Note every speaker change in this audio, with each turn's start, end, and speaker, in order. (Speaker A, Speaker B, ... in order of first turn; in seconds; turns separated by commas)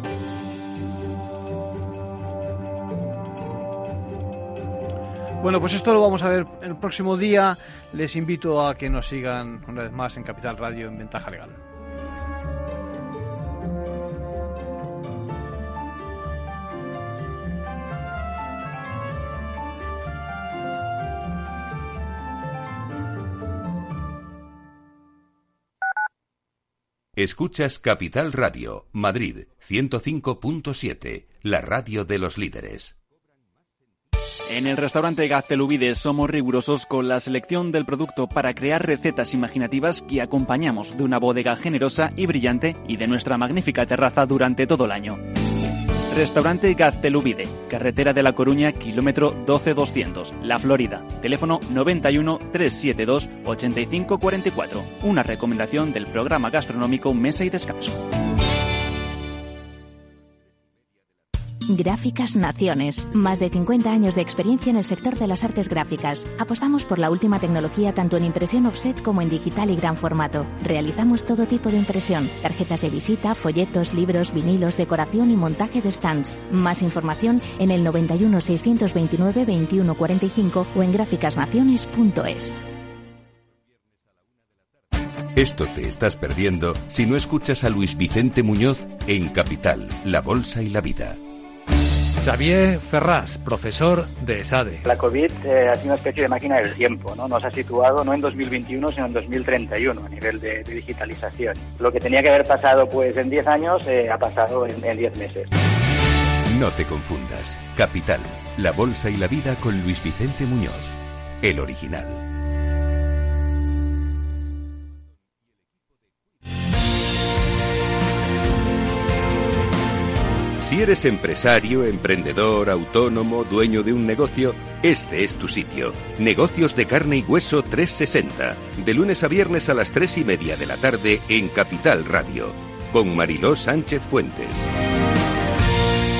Speaker A: 5.4-11.6, Speaker B: 27.1-32.9, Speaker C: 34.5-45.2, Speaker C: 46.1-58.1, Speaker D: 61.7-82.6, Speaker B: 85.3-91.2, Speaker E: 92.2-94.7, Speaker F: 94.8-105.5, Speaker B: 106.5-112.2, Speaker B: 120.6-134.7